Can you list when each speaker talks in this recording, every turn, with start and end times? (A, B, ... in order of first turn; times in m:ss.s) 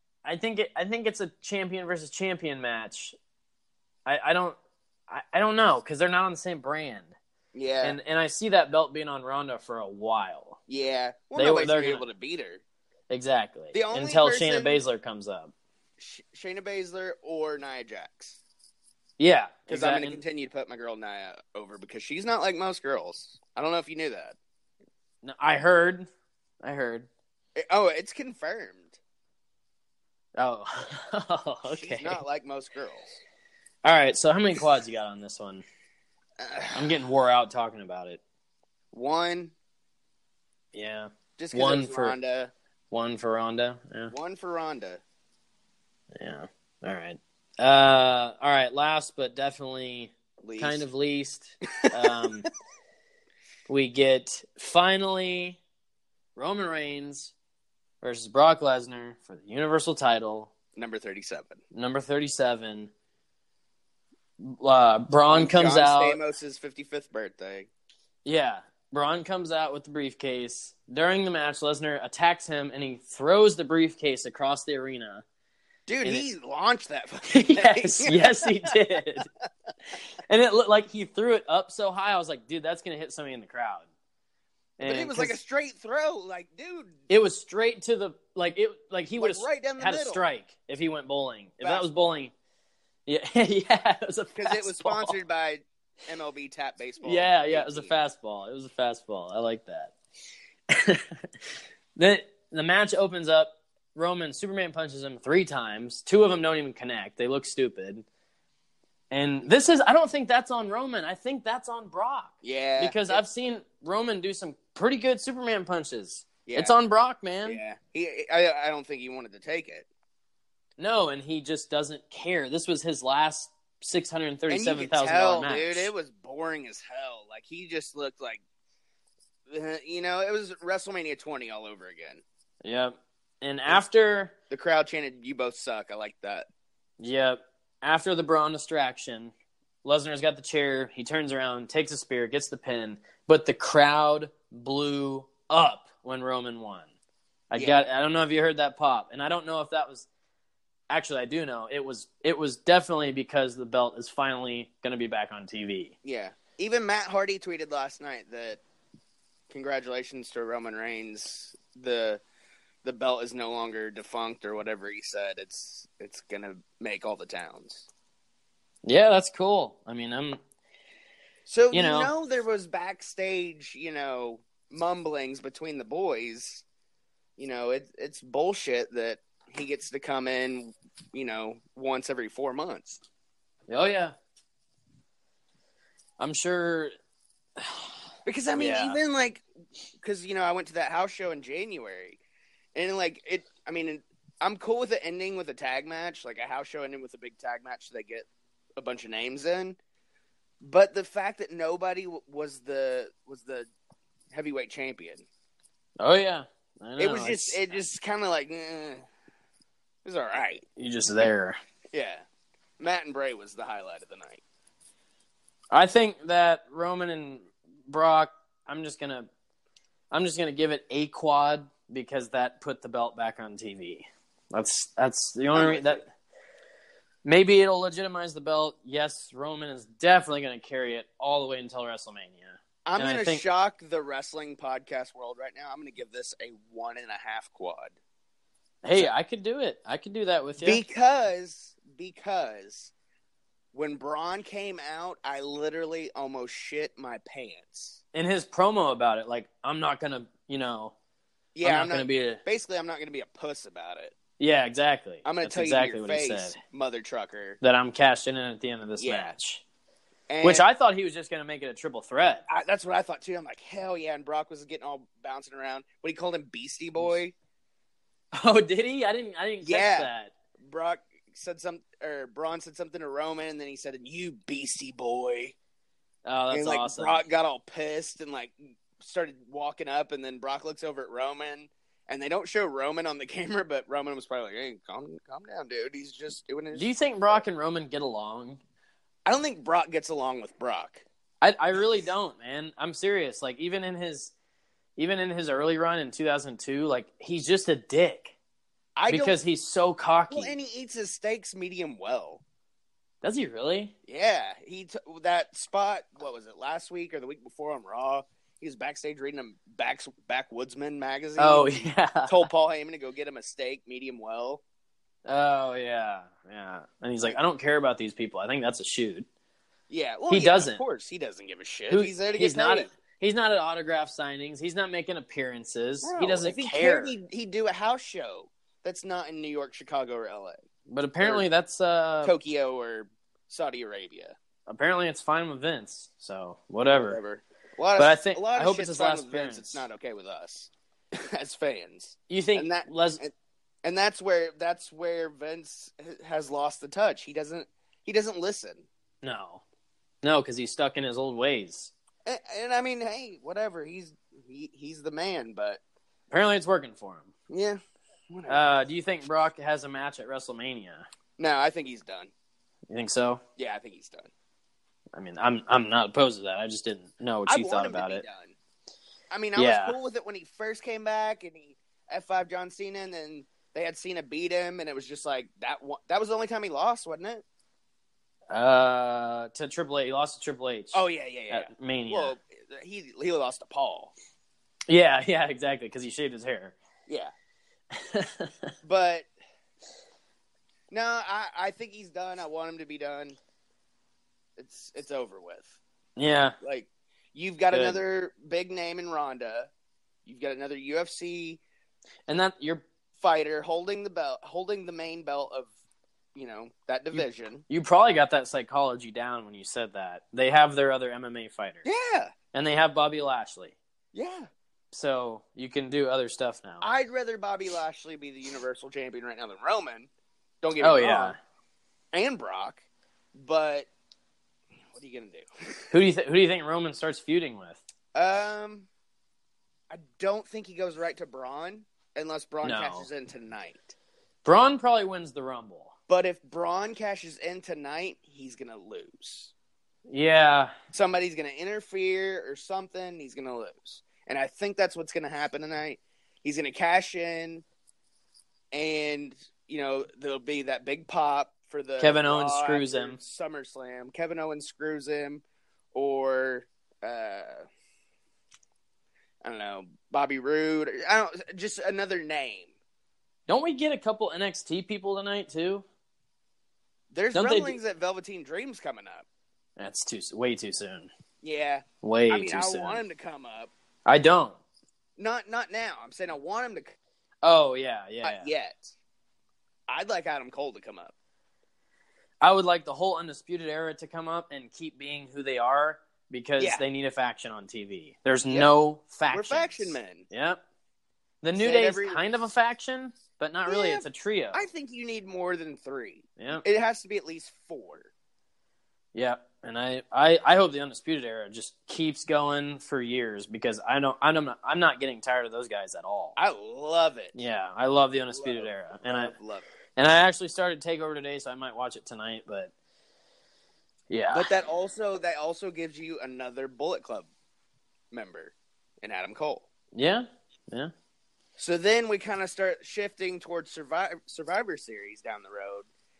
0:00.2-0:03.1 A
0:04.0-0:04.6 A
0:05.1-0:07.1 A
0:07.5-0:08.0 B
0:07.8-0:10.6 A
0:10.7-0:12.6 B
0:11.3-0:12.1 A
0:13.1-0:15.5 A
0:13.7-0:14.8 B
0:16.0-0:18.4 B
0:19.2-0:20.2 A
0:19.7-0:24.4 B
0:25.2-0:26.1 A
0:26.6-0:27.1 A
0:27.6-0:29.0 B
0:30.4-0:32.2 A
0:31.7-0:33.2 B
0:33.8-0:35.6 A
0:36.4-0:36.9 B
0:36.7-0:38.2 A
0:38.9-0:39.5 B
0:40.7-0:42.2 A
0:41.4-0:42.5 B
0:42.9-0:44.1 A
0:44.1-0:45.0 B
0:46.2-0:52.5 A
0:50.4-0:50.8 B
0:53.7-0:55.6 A
0:56.4-0:57.3 A
0:58.0-1:00.5 A
1:00.7-1:01.6 B
1:01.7-1:02.9 A
1:04.4-1:06.2 A
1:05.3-1:07.7 B
1:08.2-1:15.2 A
1:15.9-1:18.7 B
1:17.3-1:19.3 A
1:20.3-1:23.8 A
1:24.8-1:25.4 A
1:24.8-1:27.0 B
1:27.1-1:32.3 A
1:29.2-1:30.2 B
1:31.6-1:31.9 B
1:33.0-1:35.2 A
1:34.4-1:38.0 B
1:37.0-1:39.9 A
1:40.7-1:41.2 A
1:42.0-1:48.0 A
1:49.1-1:57.6 A
1:52.4-1:53.2 B
1:56.5-1:56.7 B
1:57.4-1:59.9 B
2:00.8-2:05.9 A
2:04.5-2:08.4 B
2:09.5-2:12.2 B
2:12.6-2:14.3 A
2:14.5-2:16.5 B
2:17.0-2:19.3 A
2:19.8-2:26.9 A
2:27.5-2:30.0 A
2:27.5-2:27.8 B
2:30.9-2:35.9 A
2:36.0-2:38.6 B
2:39.5-2:42.2 B
2:42.8-2:47.9 B
2:48.8-2:50.4 A
2:51.5-2:56.6 B
2:51.7-2:52.1 A
2:57.4-3:03.0 B
3:03.7-3:04.1 A
3:06.2-3:06.9 A
3:07.6-3:08.0 A
3:08.2-3:09.4 B
3:08.5-3:09.0 A
3:10.0-3:12.2 B
3:12.7-3:19.8 B
3:20.6-3:23.7 B
3:24.3-3:25.2 B
3:26.0-3:27.8 A
3:27.0-3:29.0 B
3:30.0-3:30.6 B
3:30.8-3:31.6 A
3:31.9-3:32.2 B
3:32.8-3:34.4 B
3:35.7-3:39.3 A
3:40.1-3:46.0 A
3:45.5-3:46.0 B
3:47.2-3:53.4 A
3:52.8-3:58.0 B
3:58.8-4:00.8 A
4:00.6-4:02.9 B
4:03.7-4:08.0 B
4:08.1-4:10.9 A
4:11.5-4:14.1 B
4:11.6-4:12.4 A
4:14.4-4:16.6 A
4:15.2-4:17.6 B
4:17.6-4:19.6 A
4:19.0-4:19.3 B
4:20.3-4:20.6 B
4:20.4-4:22.4 A
4:22.5-4:27.3 B
4:28.3-4:30.3 A
4:29.6-4:30.1 B
4:30.6-4:35.5 B
4:36.2-4:37.2 A
4:36.5-4:47.4 B
4:46.7-4:48.6 A
4:49.2-4:51.0 B
4:51.4-4:54.3 A
4:55.0-4:58.3 A
4:59.0-4:59.4 B
4:59.1-5:00.5 A
5:00.3-5:02.4 B
5:03.2-5:03.9 A
5:04.1-5:14.6 B
5:11.4-5:12.5 A
5:15.2-5:19.2 A
5:19.9-5:22.9 B
5:20.3-5:20.8 A
5:21.9-5:27.1 A
5:26.0-5:30.6 B
5:30.9-5:32.3 A
5:32.2-5:34.3 B
5:34.7-5:37.2 A
5:36.9-5:43.3 B
5:38.0-5:39.8 A
5:42.3-5:43.2 A
5:43.8-5:48.8 B
5:49.2-5:49.6 A
5:50.2-5:51.9 A
5:52.2-5:55.8 B
5:56.3-5:57.3 A
5:57.5-5:58.8 B
5:58.5-6:01.1 A
6:01.4-6:02.3 B
6:02.9-6:03.4 A
6:03.6-6:04.3 B
6:05.1-6:08.2 A
6:07.5-6:08.5 B
6:09.3-6:17.4 B
6:09.5-6:09.9 A
6:18.5-6:22.3 A
6:20.9-6:24.1 B
6:24.9-6:26.7 A
6:27.1-6:27.3 B
6:27.9-6:28.7 A
6:28.8-6:29.3 B
6:30.9-6:33.4 B
6:34.6-6:35.8 B
6:36.2-6:36.6 A
6:36.6-6:39.7 B
6:37.7-6:38.0 A
6:40.2-6:41.6 B
6:42.3-6:42.8 A
6:43.2-6:45.7 B
6:46.3-6:47.6 B
6:47.1-6:51.8 A
6:51.8-6:52.3 B
6:52.5-6:53.8 A
6:54.1-6:54.5 B
6:54.9-6:56.8 A
6:56.8-7:00.1 B
7:00.6-7:01.3 B
7:00.8-7:01.4 A
7:02.1-7:02.8 B
7:03.3-7:03.9 B
7:04.9-7:05.9 B
7:05.9-7:07.8 A
7:08.1-7:08.9 B
7:09.9-7:13.9 B
7:12.6-7:13.1 A
7:14.4-7:15.9 A
7:16.1-7:19.5 B
7:20.1-7:20.7 A
7:20.9-7:27.6 B
7:28.7-7:35.4 B
7:32.0-7:33.2 A
7:35.9-7:37.6 B
7:39.4-7:42.7 B
7:43.5-7:45.8 A
7:47.1-7:49.2 B
7:47.3-7:47.8 A
7:49.8-7:51.1 A
7:51.4-7:53.7 B
7:52.0-7:53.0 A
7:54.0-7:54.6 A
7:55.2-7:56.9 B
7:57.4-7:58.5 A
7:58.2-7:58.9 B
7:59.9-8:01.1 B
8:02.4-8:10.6 A
8:09.3-8:10.2 B
8:11.4-8:14.6 A
8:11.6-8:12.2 B
8:13.7-8:18.1 B
8:16.4-8:16.6 A
8:19.1-8:26.4 A
8:26.4-8:27.4 B
8:27.3-8:29.3 A
8:28.3-8:29.7 B
8:30.0-8:32.7 A
8:34.1-8:34.5 A
8:34.3-8:37.3 B
8:38.1-8:39.6 B
8:39.9-8:40.9 A
8:41.6-8:45.9 B